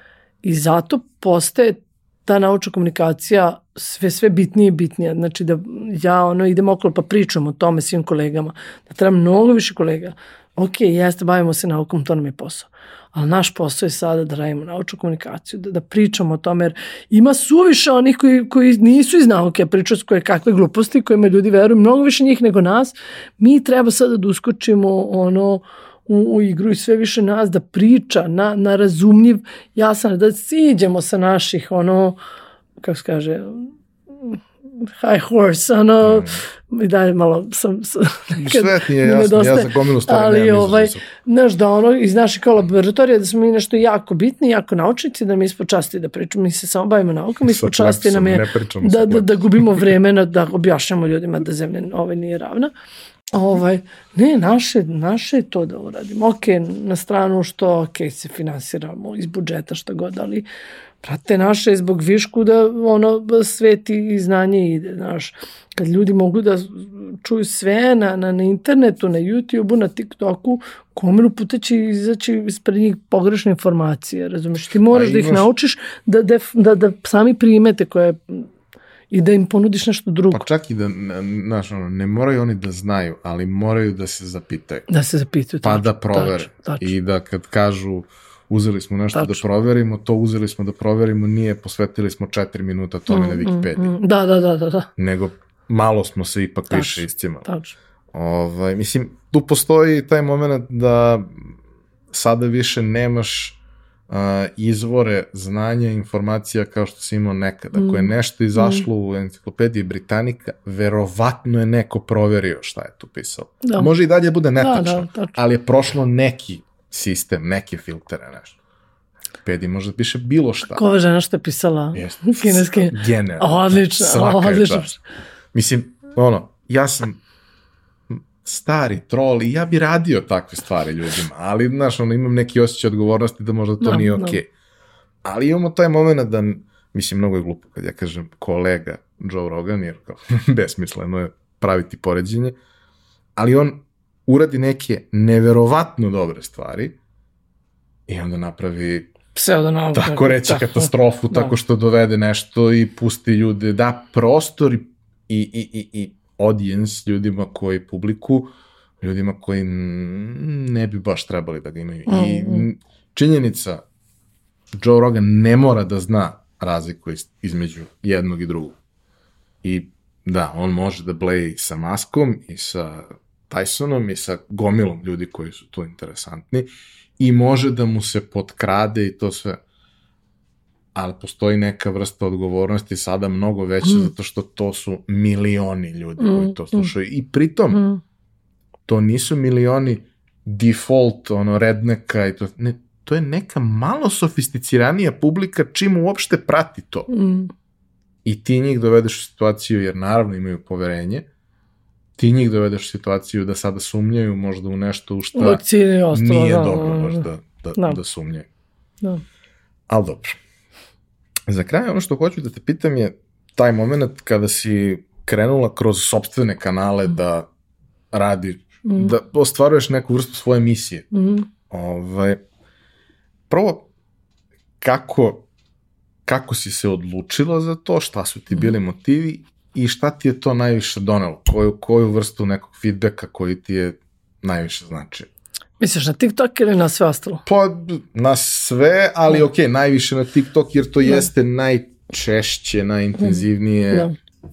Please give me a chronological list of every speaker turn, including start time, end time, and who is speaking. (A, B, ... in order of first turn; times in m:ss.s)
0:00.4-0:32.2 A
0:32.8-0:52.7 A
0:36.0-0:36.4 B
0:38.4-0:41.1 B
0:47.4-0:49.9 B
0:53.3-1:00.5 A
1:01.0-1:18.5 A
1:14.9-1:15.5 B
1:19.1-1:20.5 A
1:20.3-1:24.9 B
1:24.9-1:26.9 A
1:25.6-1:33.9 B
1:29.2-1:29.4 A
1:33.1-1:34.9 A
1:35.0-1:37.5 B
1:36.7-1:37.8 A
1:38.1-1:41.6 B
1:42.1-1:43.6 B
1:44.1-1:58.6 B
1:47.8-1:48.8 A
1:53.6-1:53.9 A
1:54.6-1:55.3 A
1:59.4-2:00.8 B
2:00.7-2:05.0 A
2:02.0-2:04.9 B
2:05.5-2:07.2 B
2:08.1-2:14.5 B
2:13.8-2:14.4 A
2:15.2-2:22.6 B
2:23.4-2:27.0 B
2:28.1-2:29.1 B
2:29.3-2:31.5 A
2:29.9-2:43.8 B
2:42.1-2:42.7 A
2:44.7-2:48.8 B
2:49.6-2:56.7 B
2:57.2-2:59.6 B
3:01.0-3:07.8 B
3:06.2-3:06.9 A
3:07.7-3:08.0 A
3:08.9-3:17.1 B
3:17.1-3:17.5 A
3:18.2-3:21.3 B
3:22.2-3:28.5 B
3:25.4-3:27.3 A
3:29.9-3:30.4 B
3:31.5-3:37.5 B
3:38.1-3:41.1 B
3:38.9-3:39.1 A
3:41.1-3:41.5 A
3:41.7-3:42.4 B
3:43.5-3:43.9 B
3:44.8-3:45.5 B
3:46.2-3:55.3 B
3:55.8-3:57.4 A
3:57.5-4:04.1 B
4:03.2-4:04.2 A